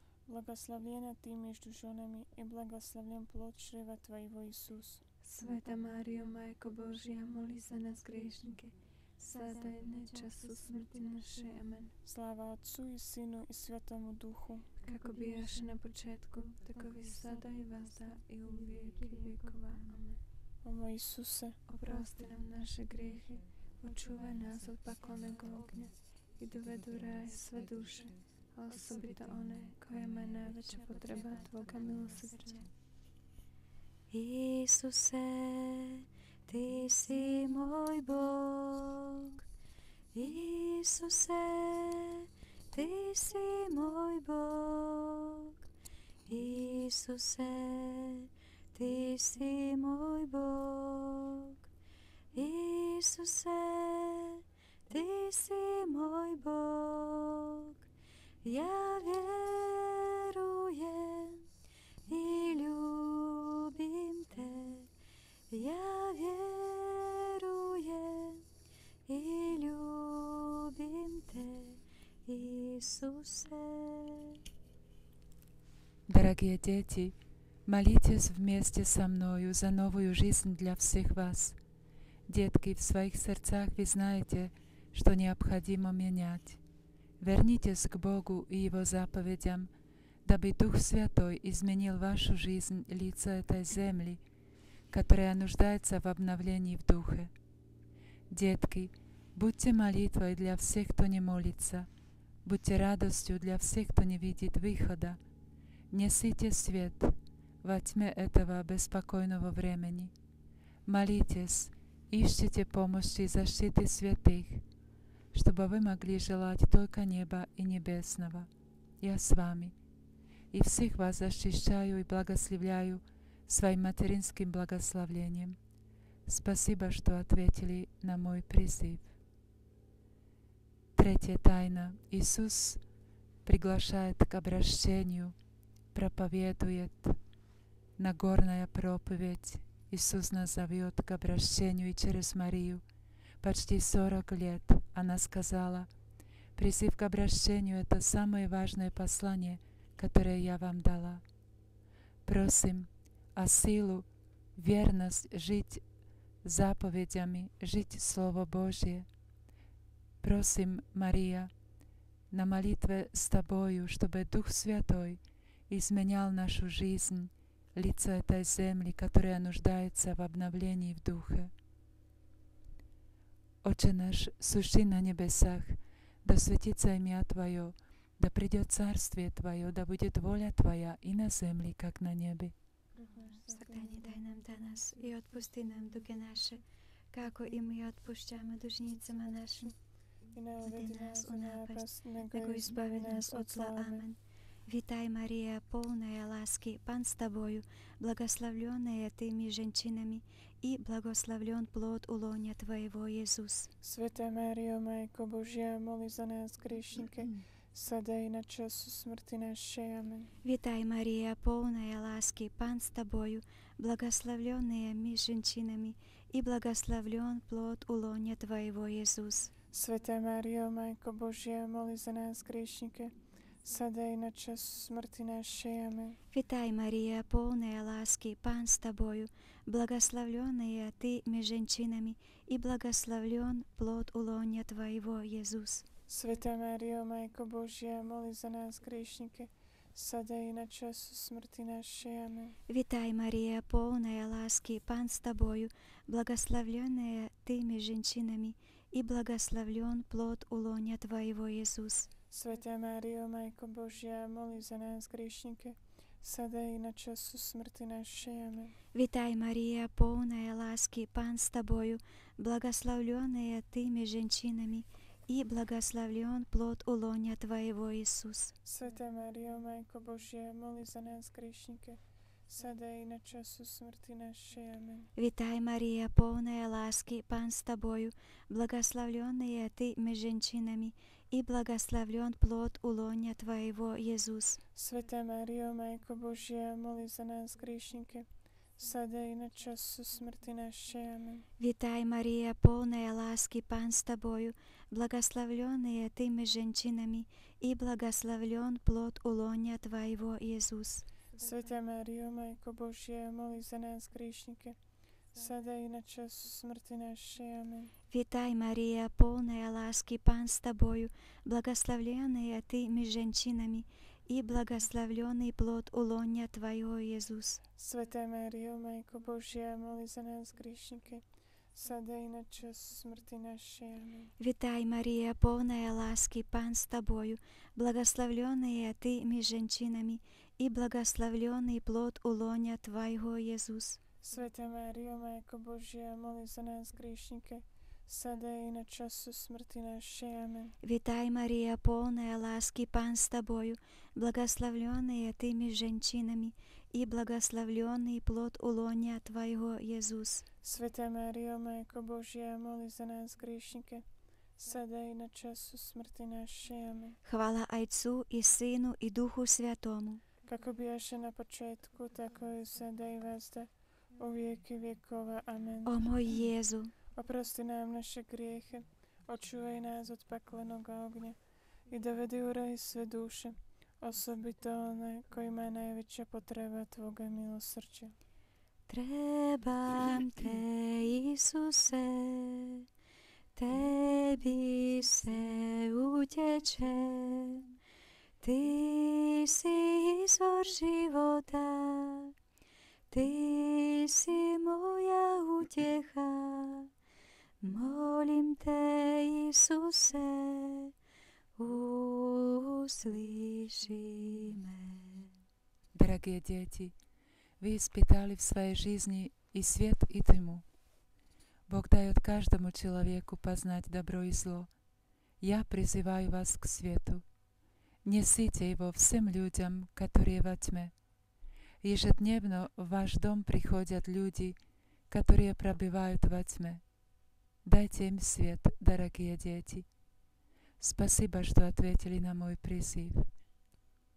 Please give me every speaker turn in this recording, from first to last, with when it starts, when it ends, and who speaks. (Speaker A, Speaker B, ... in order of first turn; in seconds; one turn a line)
Speaker A: 0.3-5.0
Speaker B: 5.2-11.9
Speaker A: 12.1-14.7
Speaker B: 14.8-20.2
Speaker A: 20.6-21.6
Speaker B: 21.7-32.6
Speaker C: 34.1-39.4
Speaker C: 40.1-45.6
Speaker C: 46.3-51.6
Speaker C: 52.3-57.8
Speaker C: 58.4-61.5
Speaker C: 62.1-64.9
Speaker C: 65.5-68.4
Speaker C: 69.1-74.4
Speaker D: 76.1-81.6
Speaker D: 82.3-86.6
Speaker D: 87.2-89.7
Speaker D: 90.2-94.2
Speaker D: 94.9-97.3
Speaker D: 98.3-101.9
Speaker D: 102.5-105.2
Speaker D: 105.9-110.1
Speaker D: 110.9-114.6
Speaker D: 115.3-118.5
Speaker D: 119.0-119.8
Speaker D: 120.5-125.6
Speaker D: 126.3-129.1
Speaker D: 131.0-132.8
Speaker D: 133.4-135.3
Speaker D: 135.9-137.2
Speaker D: 138.0-142.8
Speaker D: 143.4-145.9
Speaker D: 146.6-151.2
Speaker D: 152.3-155.8
Speaker D: 156.4-159.1
Speaker D: 160.2-161.5
Speaker D: 162.3-171.5
Speaker D: 173.6-182.5
Speaker A: 182.9-184.1
Speaker C: 183.5-189.7
Speaker A: 190.3-194.1
Speaker C: 190.7-203.7
Speaker A: 203.8-210.3
Speaker C: 210.4-219.5
Speaker A: 219.7-226.2
Speaker C: 226.3-235.8
Speaker A: 236.1-242.6
Speaker C: 242.7-252.1
Speaker A: 252.3-258.8
Speaker C: 258.9-268.5
Speaker A: 268.6-275.1
Speaker C: 275.2-284.6
Speaker A: 284.8-291.5
Speaker C: 291.6-301.1
Speaker A: 301.4-304.8
Speaker A: 305.3-307.9
Speaker C: 308.1-317.6
Speaker A: 317.8-324.3
Speaker C: 324.4-334.0
Speaker A: 334.2-340.8
Speaker C: 340.8-350.4
Speaker A: 350.6-354.1
Speaker A: 354.6-357.2
Speaker C: 357.2-360.2
Speaker A: 360.4-366.1
Speaker C: 365.9-366.9
Speaker A: 367.1-378.1
Speaker C: 378.9-382.9
Speaker C: 383.6-387.7
Speaker C: 388.4-392.3
Speaker C: 393.1-396.9
Speaker C: 397.6-400.9
Speaker C: 401.6-405.4
Speaker D: 405.9-406.9
Speaker D: 407.6-410.6
Speaker D: 411.7-414.7
Speaker D: 415.4-417.2
Speaker D: 418.0-420.9
Speaker D: 421.8-424.6
Speaker D: 425.1-426.8
Speaker D: 427.6-429.9
Speaker D: 430.8-433.3